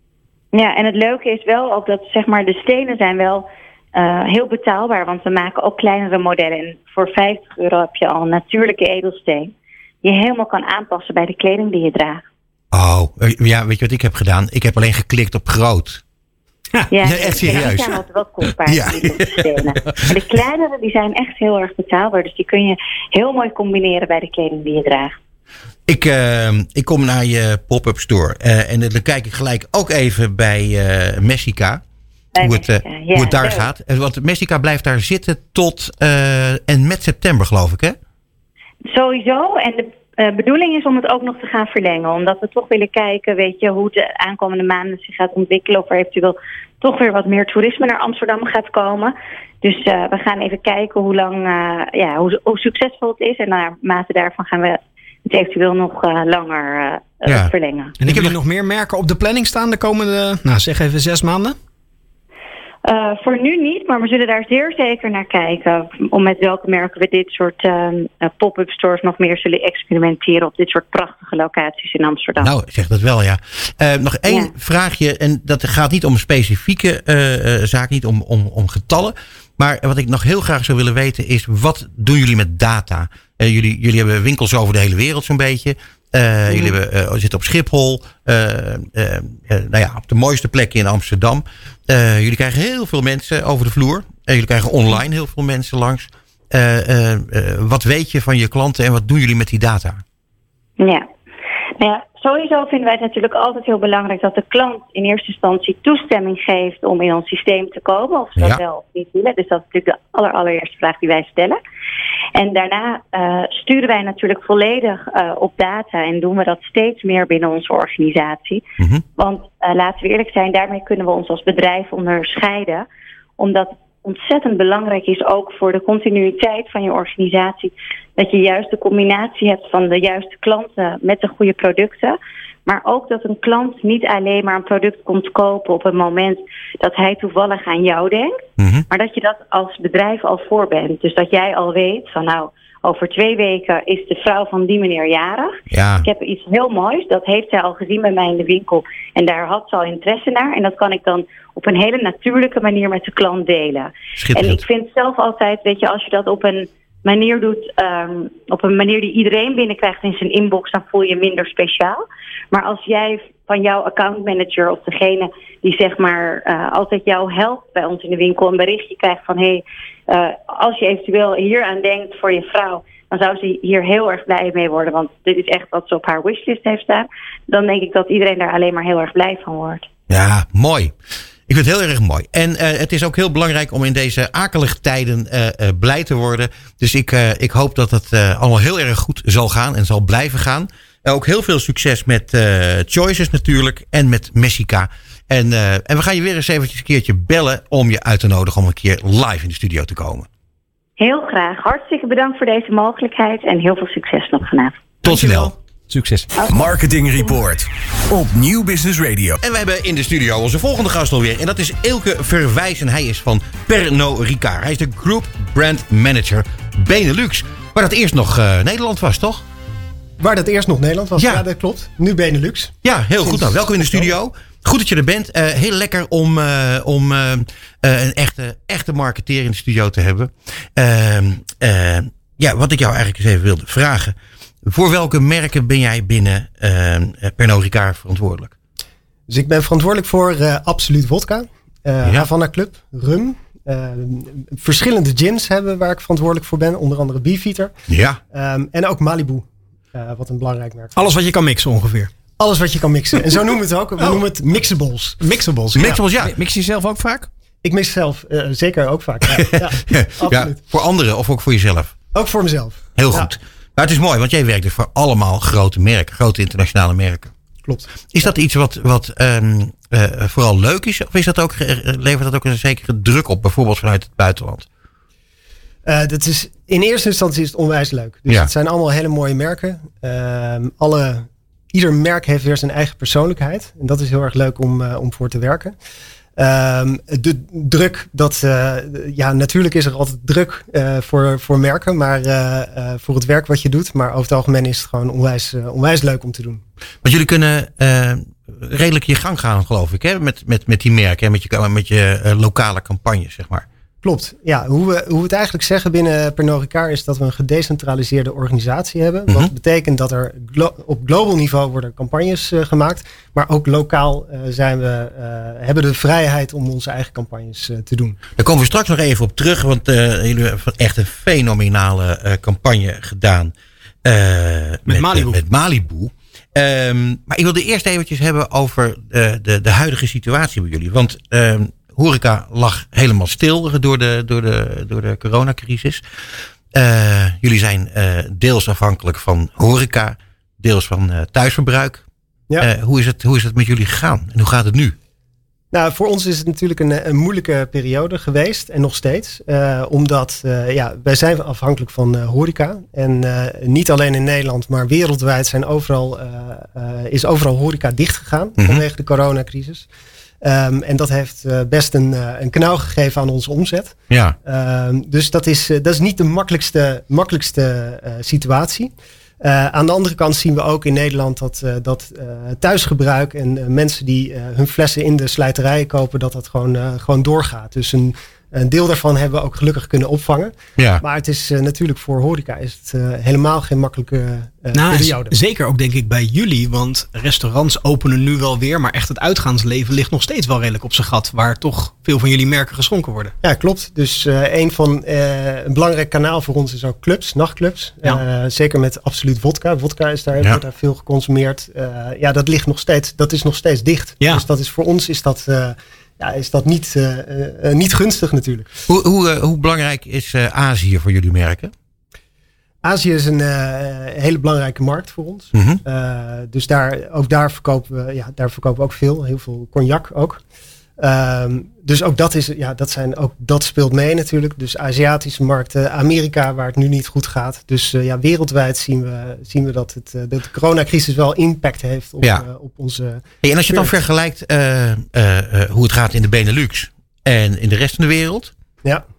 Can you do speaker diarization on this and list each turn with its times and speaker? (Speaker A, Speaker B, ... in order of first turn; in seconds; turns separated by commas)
Speaker A: 0.5-9.5, Speaker A: 10.0-12.2, Speaker B: 12.7-16.0, Speaker A: 16.9-25.1, Speaker B: 17.0-20.2, Speaker B: 25.9-31.8, Speaker A: 32.4-33.6, Speaker B: 32.4-38.0, Speaker A: 38.9-58.0, Speaker C: 58.0-61.6, Speaker B: 58.0-58.4, Speaker A: 62.9-72.5, Speaker B: 72.4-100.0, Speaker A: 74.3-74.5, Speaker A: 100.8-101.0, Speaker A: 101.8-111.6, Speaker A: 112.4-118.6, Speaker B: 118.8-119.0, Speaker A: 119.2-122.9, Speaker A: 123.4-179.9, Speaker B: 138.6-138.9, Speaker B: 145.7-146.1, Speaker B: 154.2-154.6, Speaker B: 180.1-180.9, Speaker B: 181.5-200.3, Speaker A: 201.0-204.8, Speaker B: 205.0-205.5, Speaker D: 205.1-206.3, Speaker E: 206.5-209.4, Speaker B: 209.4-219.4, Speaker F: 220.2-224.1, Speaker B: 222.8-238.5, Speaker F: 239.3-247.8, Speaker B: 247.9-248.2, Speaker F: 248.3-250.9, Speaker C: 251.0-252.1, Speaker F: 252.4-255.2, Speaker C: 254.0-254.2, Speaker C: 255.2-256.0, Speaker B: 255.8-256.4, Speaker D: 256.2-257.3, Speaker F: 257.6-260.6, Speaker B: 259.3-262.0, Speaker F: 262.1-263.3, Speaker B: 263.0-267.3, Speaker F: 267.6-268.3, Speaker B: 268.1-274.7, Speaker F: 275.9-285.8, Speaker F: 286.4-296.6, Speaker B: 297.0-303.7, Speaker F: 304.0-318.2, Speaker B: 318.4-323.5, Speaker B: 324.1-336.0, Speaker C: 324.9-325.4, Speaker B: 336.7-342.0, Speaker B: 342.6-345.0, Speaker F: 345.7-359.9, Speaker B: 358.6-358.8, Speaker F: 360.4-385.4, Speaker B: 364.1-364.4, Speaker B: 380.8-381.0, Speaker C: 384.7-393.3, Speaker F: 393.4-408.7, Speaker B: 408.9-411.7, Speaker F: 412.8-420.4, Speaker B: 415.5-415.8, Speaker F: 421.0-433.9, Speaker B: 433.4-438.5